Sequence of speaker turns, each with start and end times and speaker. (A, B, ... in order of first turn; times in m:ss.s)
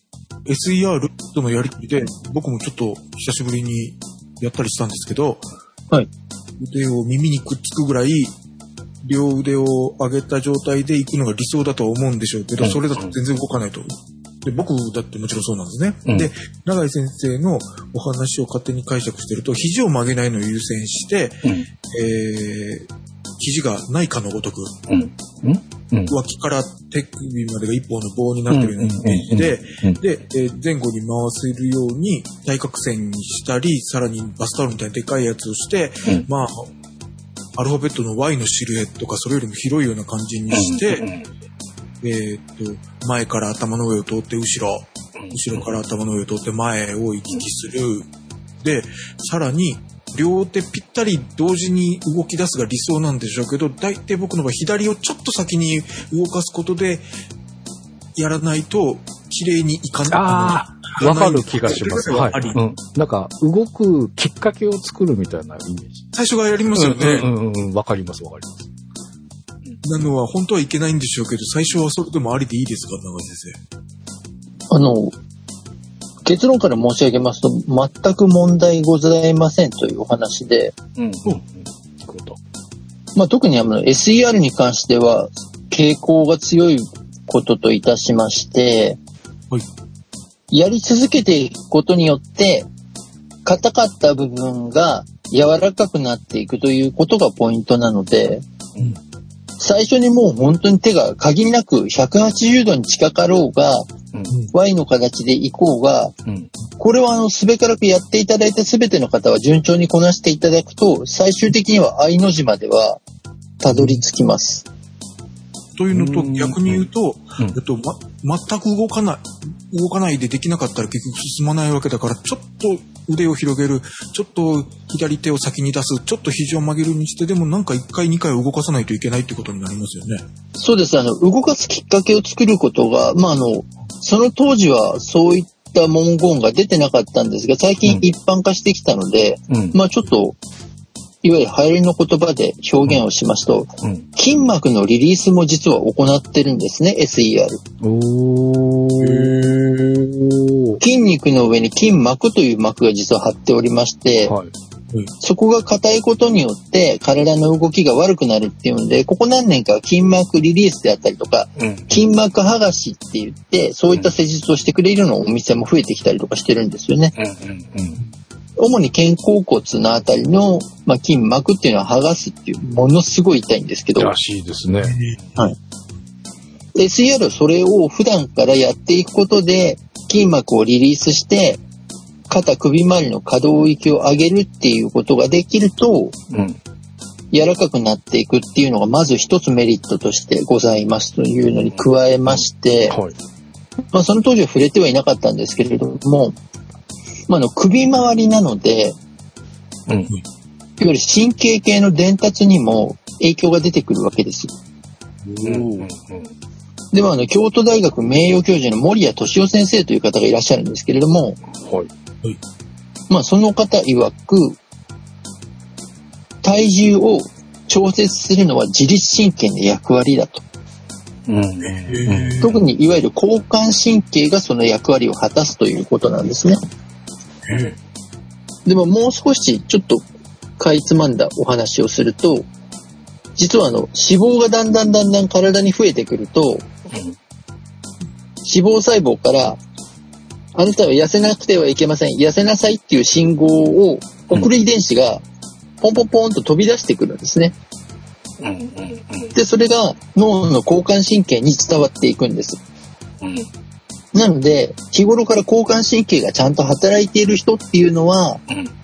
0:00.4-0:05.4 A
0:06.6-0:08.3 A
0:09.0-0:13.9 A
0:12.6-0:13.1 B
0:14.4-0:22.9 A
0:23.4-0:24.8 A
0:24.9-0:26.1 B
0:26.1-0:36.7 A
0:28.5-0:30.0 B
0:37.6-0:41.1 A
0:40.5-0:41.2 B
0:42.0-0:48.1 A
0:48.6-0:57.0 A
0:58.2-1:02.6 A
1:00.1-1:06.1 B
1:06.1-1:07.3 A
1:06.7-1:08.7 B
1:09.8-1:13.6 A
1:14.7-1:15.2 C
1:16.2-1:20.7 C
1:21.0-1:22.4 B
1:23.2-1:29.0 C
1:30.5-1:32.7 C
1:33.4-1:38.4 C
1:39.6-1:43.9 C
1:44.5-1:46.1 C
1:46.8-1:53.0 C
1:53.6-1:54.7 C
1:55.7-2:10.2 A
1:55.9-1:56.9 B
2:10.6-2:20.4 C
2:19.5-2:19.8 B
2:21.2-2:27.6 C
2:23.8-2:24.1 B
2:27.8-2:30.8 B
2:29.0-2:29.5 A
2:30.8-2:34.3 C
2:34.2-2:34.5 B
2:35.2-2:47.1 C
2:41.6-2:42.0 B
2:47.2-2:48.0 B
2:48.6-2:54.1 C
2:54.0-2:55.4 B
2:54.8-2:55.4 A
2:56.8-3:01.6 C
3:02.3-3:06.1 C
3:06.3-3:06.6 B
3:07.3-3:13.0 C
3:12.9-3:13.1 B
3:13.9-3:16.3 C
3:17.3-3:19.0 C
3:19.9-3:20.1 B
3:20.8-3:24.5 C
3:25.2-3:25.9 A
3:25.4-3:26.3 B
3:26.9-3:31.4 C
3:31.5-3:31.9 B
3:33.1-3:34.6 C
3:36.4-3:40.4 C
3:41.3-3:42.4 B
3:41.6-3:42.5 A
3:42.4-3:46.6 C
3:47.4-3:47.7 A
3:48.6-3:50.0 C
3:50.6-3:52.5 C
3:53.4-3:56.6 C
3:58.4-3:59.6 C
4:00.5-4:05.2 C
4:05.8-4:07.5 C
4:08.4-4:09.3 B
4:09.3-4:12.6 C
4:14.1-4:18.4 C